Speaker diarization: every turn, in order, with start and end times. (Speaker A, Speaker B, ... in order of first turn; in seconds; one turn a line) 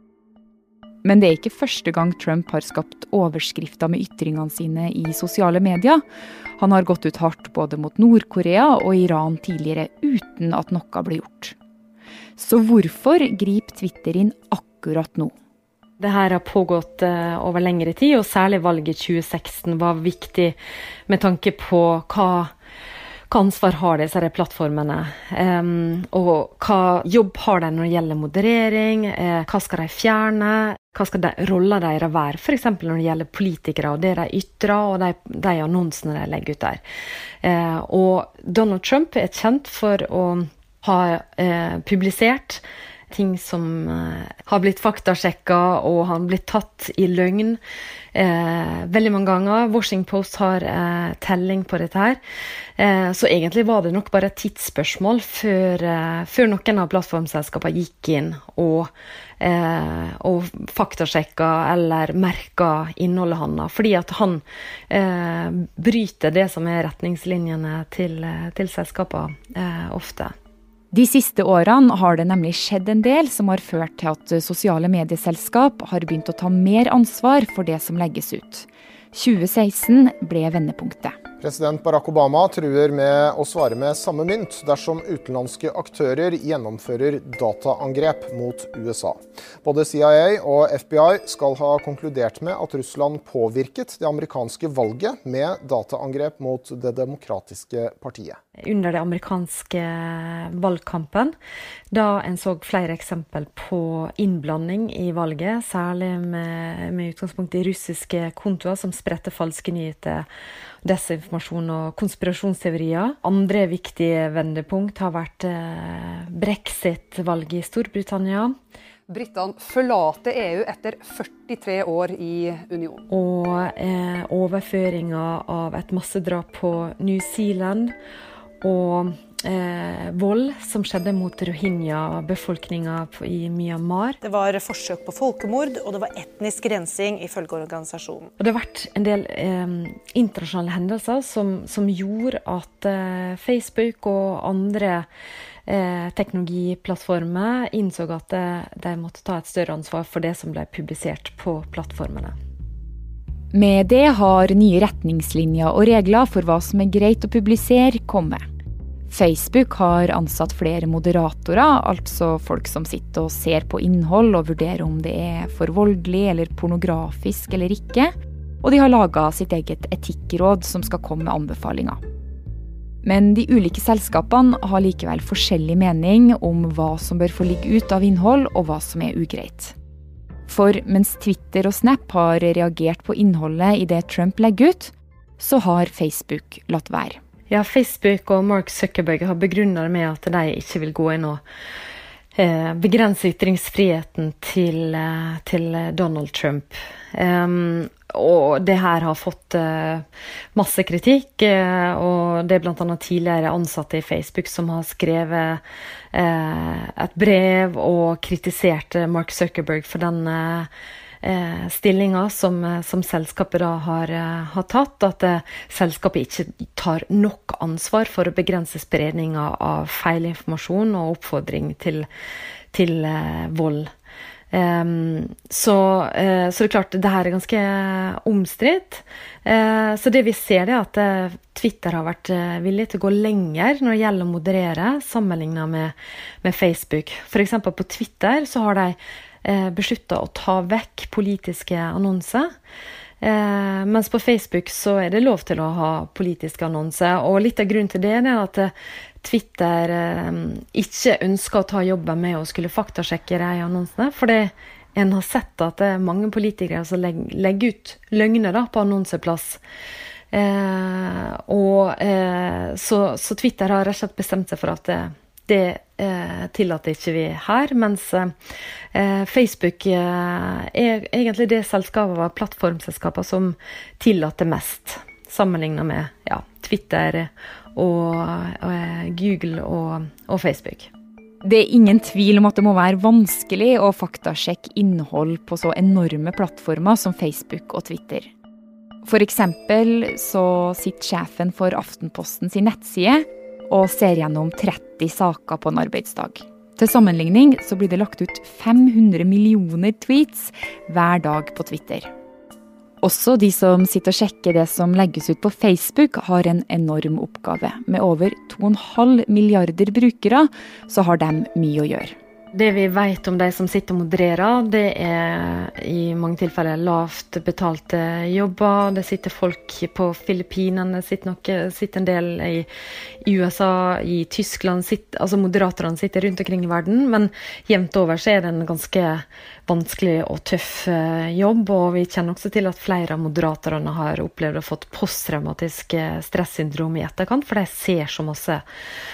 Speaker A: 1.0-6.0
Speaker A: 6.6-11.6
Speaker A: 12.4-15.3
Speaker B: 16.0-20.6
Speaker B: 21.1-22.5
Speaker B: 23.3-36.8
Speaker B: 37.4-47.6
Speaker B: 48.1-52.2
Speaker B: 52.8-70.3
Speaker A: 70.9-81.2
Speaker C: 81.4-98.4
Speaker B: 98.6-101.3
Speaker B: 101.9-110.3
Speaker B: 110.8-118.5
Speaker D: 119.1-123.0
Speaker B: 123.1-127.9
Speaker B: 128.6-134.2
Speaker E: 134.2-138.3
Speaker B: 138.4-145.1
Speaker B: 145.7-152.3
Speaker A: 153.5-158.4
Speaker A: 159.1-172.0
Speaker A: 173.0-179.8
Speaker A: 180.5-187.2
Speaker B: 187.5-191.4
Speaker B: 192.4-205.6
Speaker B: 206.1-210.7
Speaker B: 211.2-222.1
Speaker B: 222.7-223.9
Speaker B: 224.5-242.5
Speaker B: 243.2-259.6
Speaker B: 260.3-268.3
Speaker B: 268.9-280.9
Speaker A: 281.4-288.3
Speaker A: 289.1-302.1
Speaker A: 303.0-312.1
Speaker B: 312.5-322.7
Speaker B: 323.2-338.6